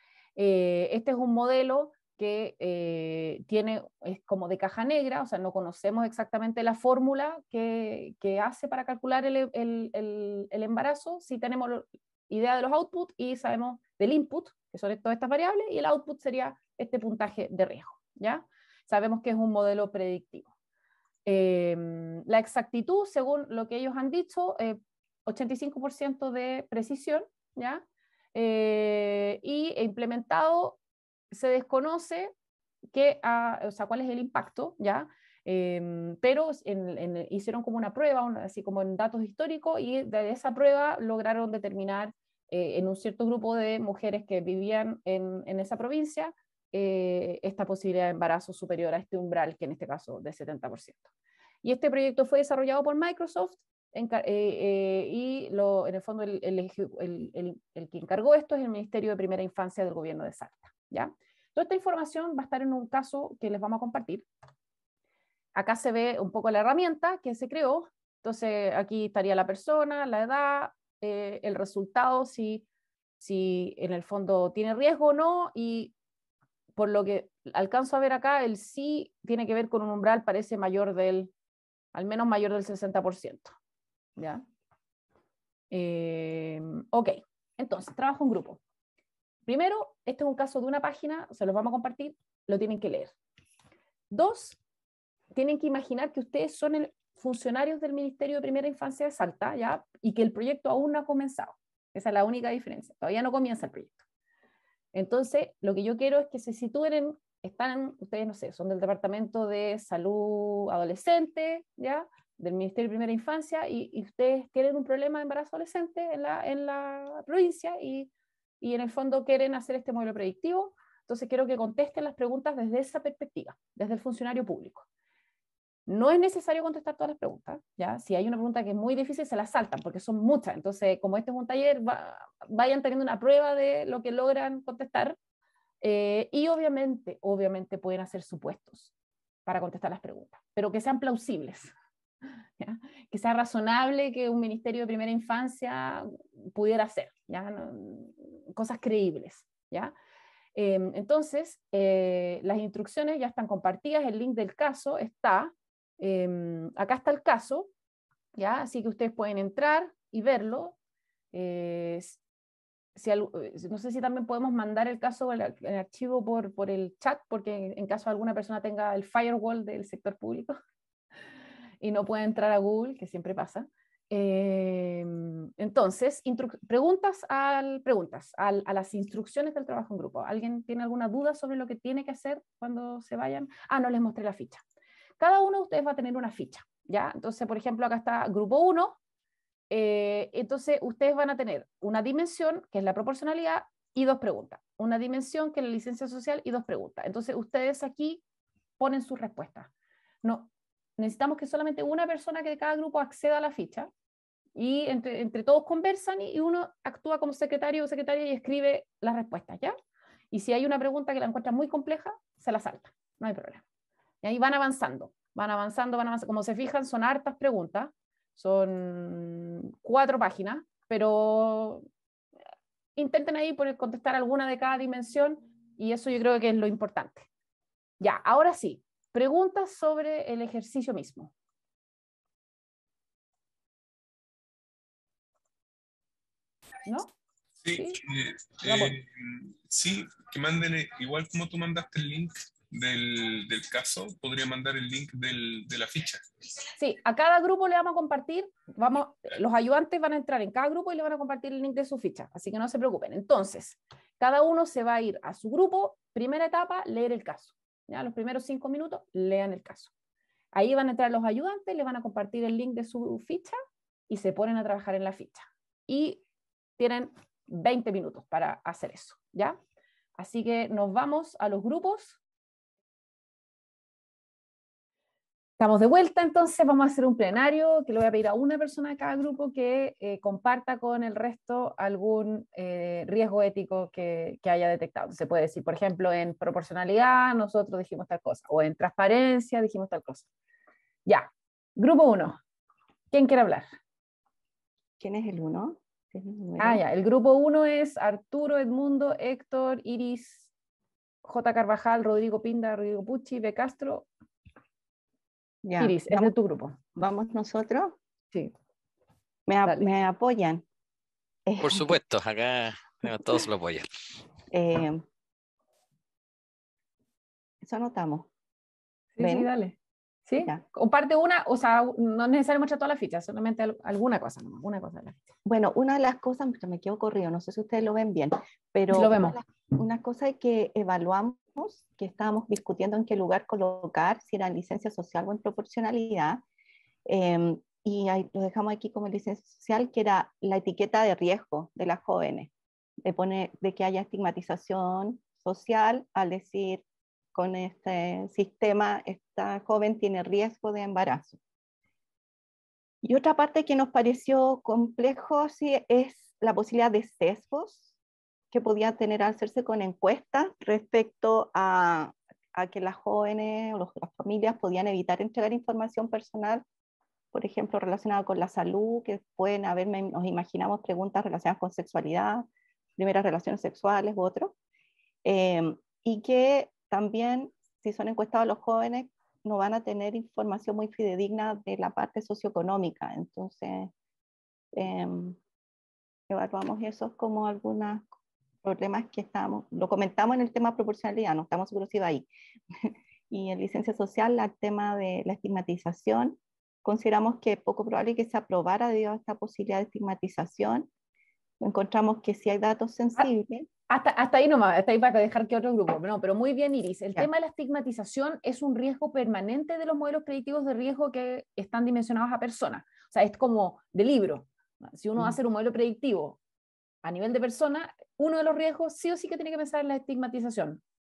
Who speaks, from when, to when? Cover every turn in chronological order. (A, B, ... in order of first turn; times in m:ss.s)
0:00.4-0:20.5 A
0:21.2-0:27.8 A
0:28.3-0:30.8 A
0:31.3-0:32.3 A
0:32.9-0:51.1 A
0:51.6-1:04.2 A
1:05.5-1:12.6 A
1:13.2-1:15.9 A
1:16.8-1:21.3 A
1:21.9-1:23.5 A
1:24.2-1:24.4 A
1:25.7-1:28.6 A
1:29.5-1:33.1 A
1:34.1-1:34.6 A
1:35.3-1:44.0 A
1:44.9-1:58.1 A
1:58.6-2:04.8 A
2:05.9-2:15.2 A
2:15.8-2:18.9 A
2:19.4-2:21.7 A
2:22.6-2:29.9 A
2:30.5-2:37.7 A
2:38.4-2:40.7 A
2:41.3-2:42.2 A
2:43.0-2:50.6 A
2:51.8-3:04.6 A
3:05.2-3:09.0 A
3:09.7-3:18.2 A
3:18.8-3:19.7 A
3:20.2-3:23.9 A
3:24.6-3:29.8 A
3:30.3-3:33.6 A
3:34.2-3:41.8 A
3:43.0-3:47.3 A
3:48.0-3:51.3 A
3:56.8-3:57.1 A
3:57.6-4:06.2 B
3:57.7-3:58.0 A
3:58.6-3:59.0 A
4:06.8-4:19.9 A
4:20.5-4:23.6 A
4:24.1-4:26.2 A
4:26.8-4:29.6 A
4:30.2-4:32.2 A
4:35.6-4:50.3 A
4:51.0-4:52.4 A
4:53.1-4:53.7 A
4:55.0-4:56.8 C
4:56.6-5:00.5 A
5:01.2-5:04.1 A
5:05.6-5:06.3 C
5:05.8-5:06.8 A
5:07.0-5:08.0 C
5:09.5-5:10.6 C
5:11.4-5:12.0 C
5:11.6-5:13.9 D
5:14.5-5:15.0 C
5:17.6-5:18.3 C
5:19.2-5:19.8 A
5:19.2-5:19.5 C
5:20.3-5:25.2 A
5:25.4-5:36.4 C
5:28.9-5:29.4 A
5:37.0-5:42.5 C
5:43.0-5:51.4 C
5:53.0-5:57.9 C
5:58.5-6:06.6 C
6:07.3-6:12.4 C
6:13.0-6:14.5 C
6:15.2-6:23.9 C
6:24.8-6:25.4 C
6:26.3-6:28.0 C
6:28.6-6:40.9 C
6:41.6-6:43.7 C
6:43.9-6:56.4 A
6:57.0-7:00.8 A